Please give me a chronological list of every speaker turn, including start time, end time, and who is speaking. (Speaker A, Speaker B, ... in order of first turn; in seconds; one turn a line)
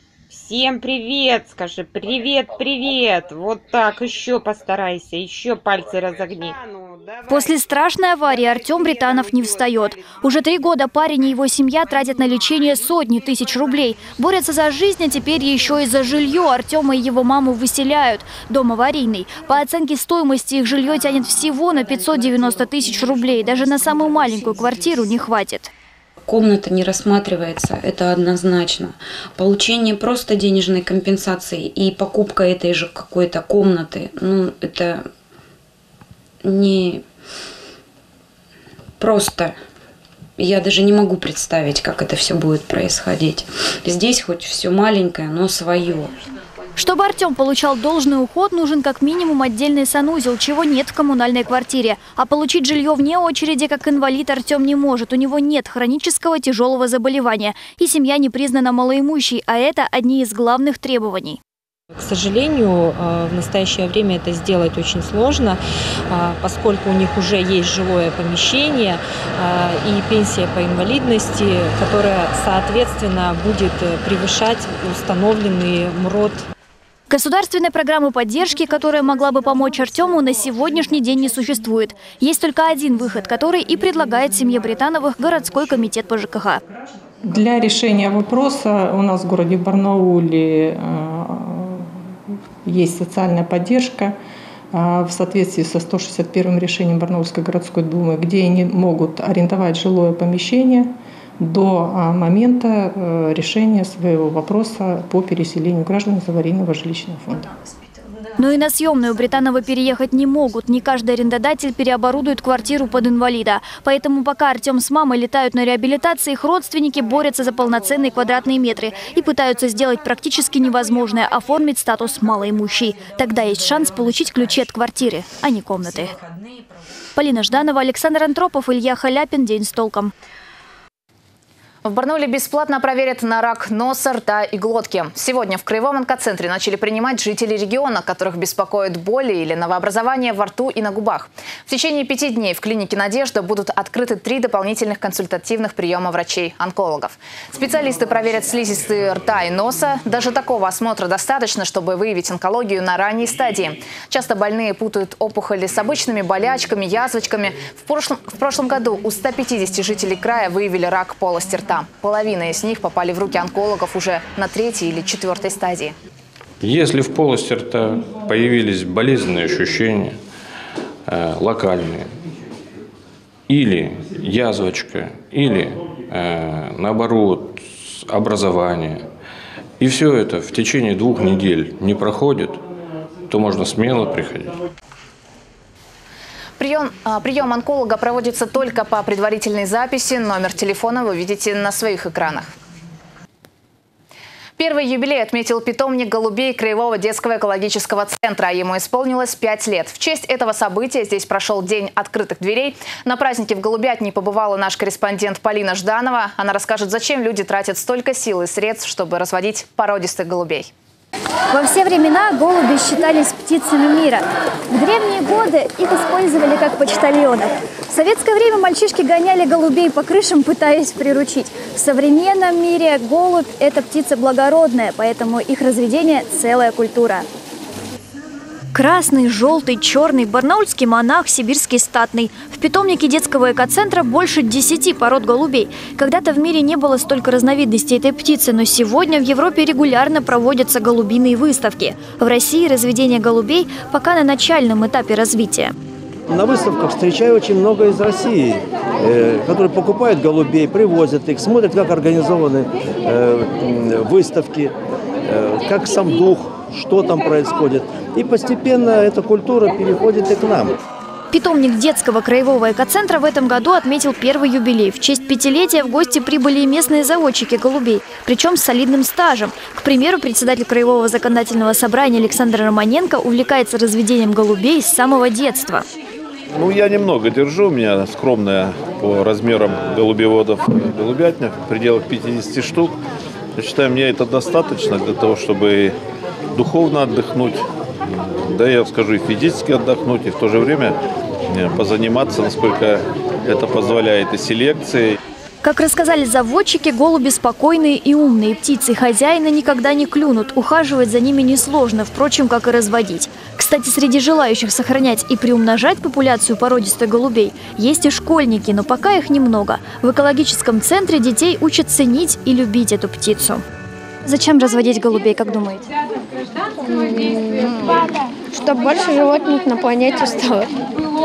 Speaker A: 0.3-6.9
Speaker B: 7.3-25.7
Speaker C: 26.3-35.0
Speaker C: 36.4-37.0
Speaker C: 39.0-39.5
Speaker C: 40.4-46.1
Speaker B: 46.8-61.4
Speaker D: 62.0-76.5
Speaker B: 77.1-86.6
Speaker E: 87.2-91.9
Speaker E: 92.6-94.1
Speaker E: 94.7-107.5
Speaker B: 108.4-126.1
Speaker B: 127.2-130.1
Speaker F: 131.8-165.9
Speaker G: 166.6-170.2
Speaker G: 171.1-172.1
Speaker G: 173.5-179.0
Speaker G: 179.8-182.6
Speaker G: 183.3-184.6
Speaker F: 186.6-192.5
Speaker F: 194.6-210.7
Speaker B: 211.5-227.2
Speaker B: 228.7-245.7
Speaker H: 246.3-254.7
Speaker H: 255.2-260.8
Speaker B: 261.3-275.8
Speaker I: 276.5-283.0
Speaker I: 283.6-285.9
Speaker I: 286.5-287.6
Speaker I: 288.4-290.9
Speaker I: 291.5-295.2
Speaker B: 295.6-313.6
Speaker B: 314.2-315.9
Speaker J: 316.8-318.0
Speaker J: 318.5-320.7